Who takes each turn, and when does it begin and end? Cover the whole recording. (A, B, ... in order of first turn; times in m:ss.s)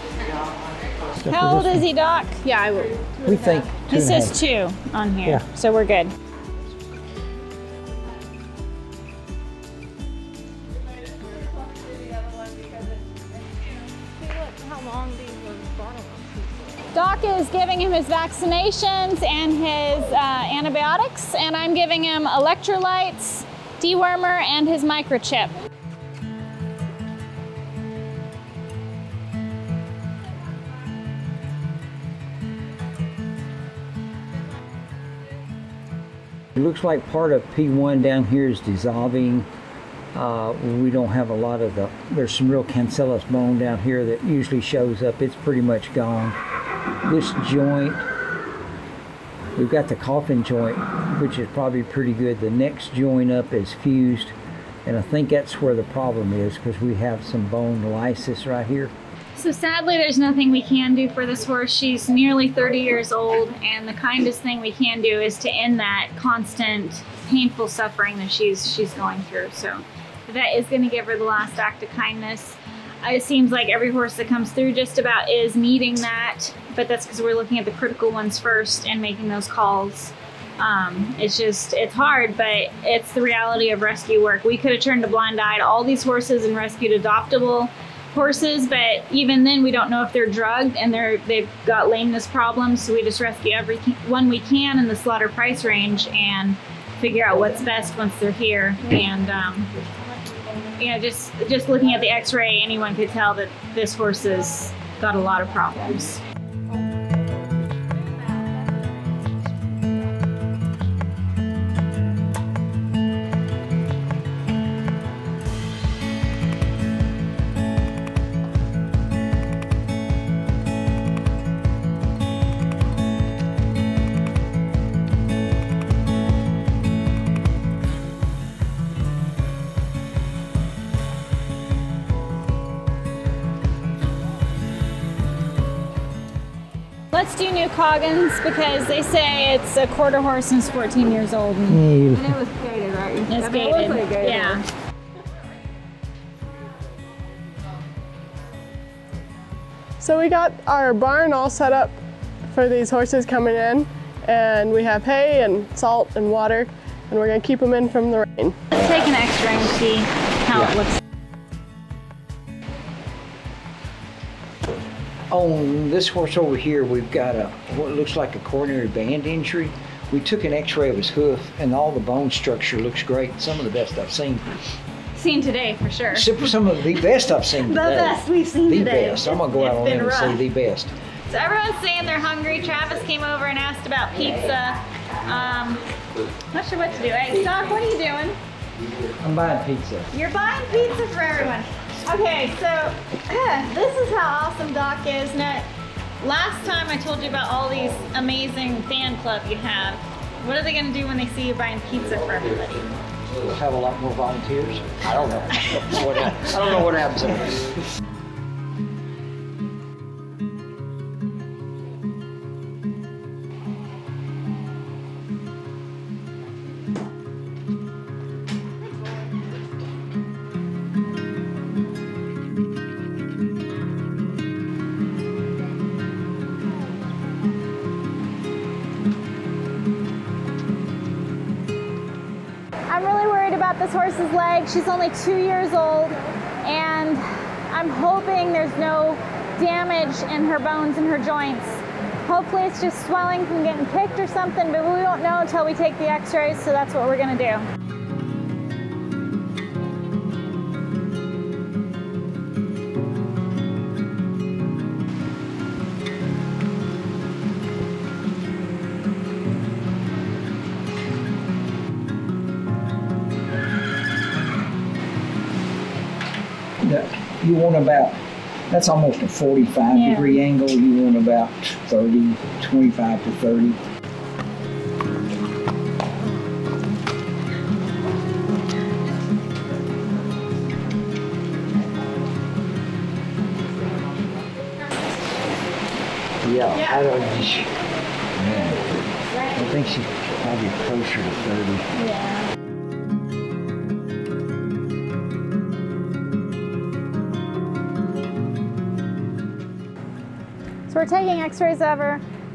0:01.2-0:01.8 A
0:01.3-0:02.4 B
0:03.2-0:04.4 A
0:03.9-0:06.1 B
0:16.9-0:25.5 B
0:36.6-0:39.5 A
0:40.1-0:46.4 A
0:47.0-0:48.0 A
0:49.6-0:54.3 A
0:54.8-0:58.9 A
0:59.4-1:39.7 B
1:40.8-1:46.2 B
2:17.1-2:24.6 B
2:21.7-2:22.4 A
2:30.0-2:32.0 C
2:32.5-2:38.6 C
2:38.7-2:41.0 B
2:45.3-2:54.4 A
2:55.1-2:56.3 B
2:56.1-3:00.9 A
2:57.6-3:00.4 B
3:01.3-3:05.8 B
3:06.5-3:08.4 B
3:09.2-3:10.1 A
3:10.1-3:15.7 B
3:16.2-3:22.8 B
3:23.4-3:27.7 A
3:52.9-4:07.6 B
4:26.8-4:28.2 A
4:28.7-4:33.8 A
4:29.9-4:30.4 B
4:46.4-4:47.7 A
4:46.7-4:47.0 B
4:48.4-4:51.9 A
4:52.0-4:52.4 B
5:00.9-5:02.2 B